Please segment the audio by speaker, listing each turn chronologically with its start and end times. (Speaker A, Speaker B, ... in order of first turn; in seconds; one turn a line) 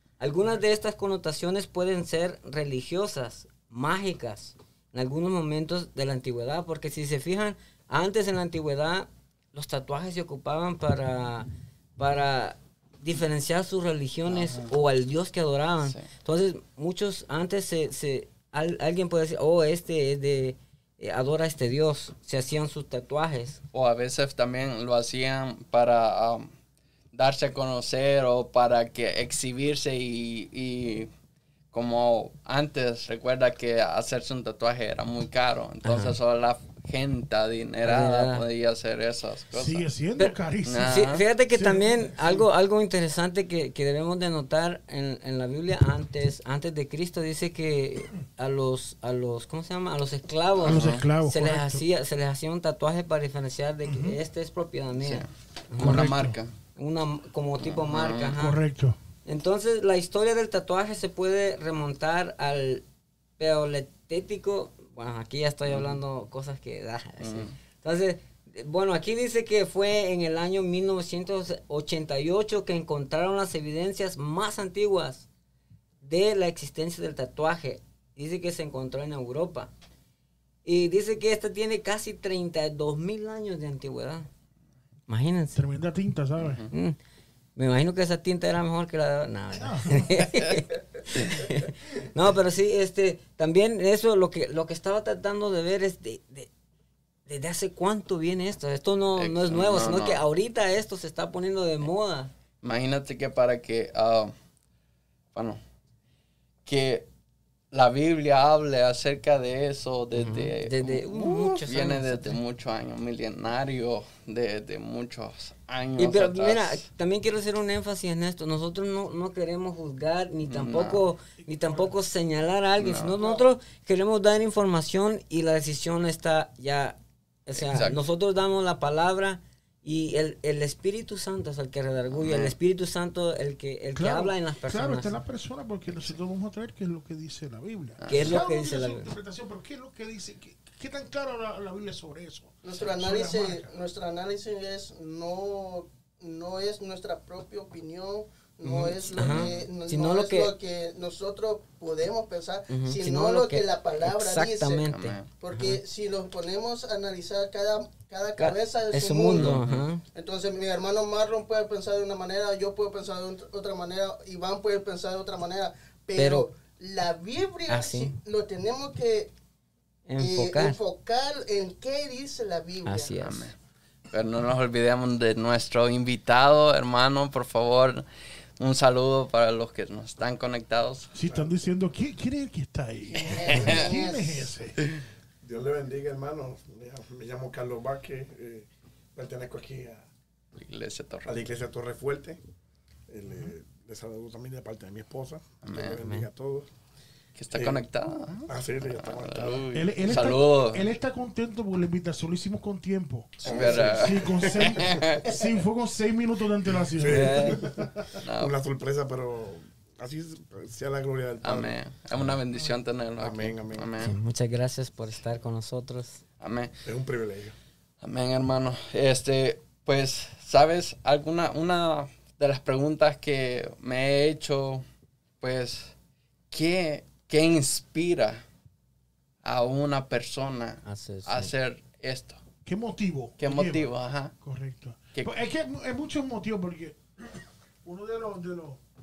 Speaker A: 0.2-23.6
Speaker B: 14.3-14.7
Speaker B: 23.7-26.5
Speaker B: 27.1-31.1
Speaker B: 31.7-39.9
Speaker A: 35.8-36.2
Speaker A: 37.8-38.4
Speaker C: 39.5-42.4
Speaker A: 40.2-56.1
Speaker B: 40.6-41.2
Speaker B: 50.6-51.0
Speaker C: 50.6-51.9
Speaker C: 53.9-54.2
Speaker B: 55.0-56.5
Speaker C: 55.8-56.4
Speaker A: 56.8-58.6
Speaker B: 57.6-58.3
Speaker C: 58.3-59.0
Speaker A: 59.2-62.8
Speaker A: 63.4-75.3
Speaker B: 65.7-66.0
Speaker B: 67.2-67.5
Speaker A: 76.0-79.7
Speaker A: 80.7-84.3
Speaker A: 85.1-85.6
Speaker C: 85.5-86.6
Speaker B: 86.4-86.7
Speaker A: 86.7-87.0
Speaker A: 87.6-96.5
Speaker C: 89.5-90.2
Speaker A: 97.3-102.3
Speaker B: 99.2-100.2
Speaker B: 102.6-104.3
Speaker B: 105.3-105.6
Speaker B: 106.7-107.1
Speaker B: 107.7-116.8
Speaker A: 110.1-112.4
Speaker A: 116.0-135.1
Speaker B: 120.5-121.0
Speaker C: 121.4-121.9
Speaker B: 122.8-123.1
Speaker B: 127.6-128.0
Speaker B: 132.2-132.6
Speaker C: 134.0-143.7
Speaker B: 138.0-138.3
Speaker A: 138.1-139.1
Speaker D: 142.6-159.6
Speaker A: 148.7-150.5
Speaker B: 149.2-149.6
Speaker A: 152.7-155.8
Speaker B: 154.9-155.3
Speaker A: 158.4-160.0
Speaker B: 159.4-159.9
Speaker D: 160.1-169.3
Speaker A: 166.2-166.5
Speaker A: 167.7-168.2
Speaker A: 170.1-170.8
Speaker D: 170.2-173.2
Speaker A: 172.9-173.5
Speaker B: 173.2-173.6
Speaker B: 174.1-178.1
Speaker B: 178.6-181.1
Speaker C: 181.1-184.8
Speaker E: 181.3-181.5
Speaker D: 183.2-184.5
Speaker B: 183.3-183.9
Speaker E: 185.4-190.1
Speaker B: 190.6-191.4
Speaker E: 191.2-192.4
Speaker E: 193.1-196.7
Speaker B: 195.6-196.0
Speaker A: 196.0-196.3
Speaker B: 197.4-200.9
Speaker E: 197.5-197.8
Speaker E: 198.5-199.7
Speaker C: 199.7-208.1
Speaker B: 203.4-205.4
Speaker E: 203.4-205.0
Speaker E: 206.9-211.8
Speaker B: 207.1-207.6
Speaker B: 208.2-208.5
Speaker B: 211.4-214.2
Speaker E: 213.2-213.9
Speaker A: 214.0-216.2
Speaker B: 216.4-216.8
Speaker E: 216.8-217.6
Speaker B: 218.0-224.8
Speaker B: 225.4-225.9
Speaker B: 226.5-228.4
Speaker B: 229.4-232.4
Speaker A: 230.8-231.5
Speaker C: 232.7-237.0
Speaker B: 233.4-234.3
Speaker C: 237.8-238.8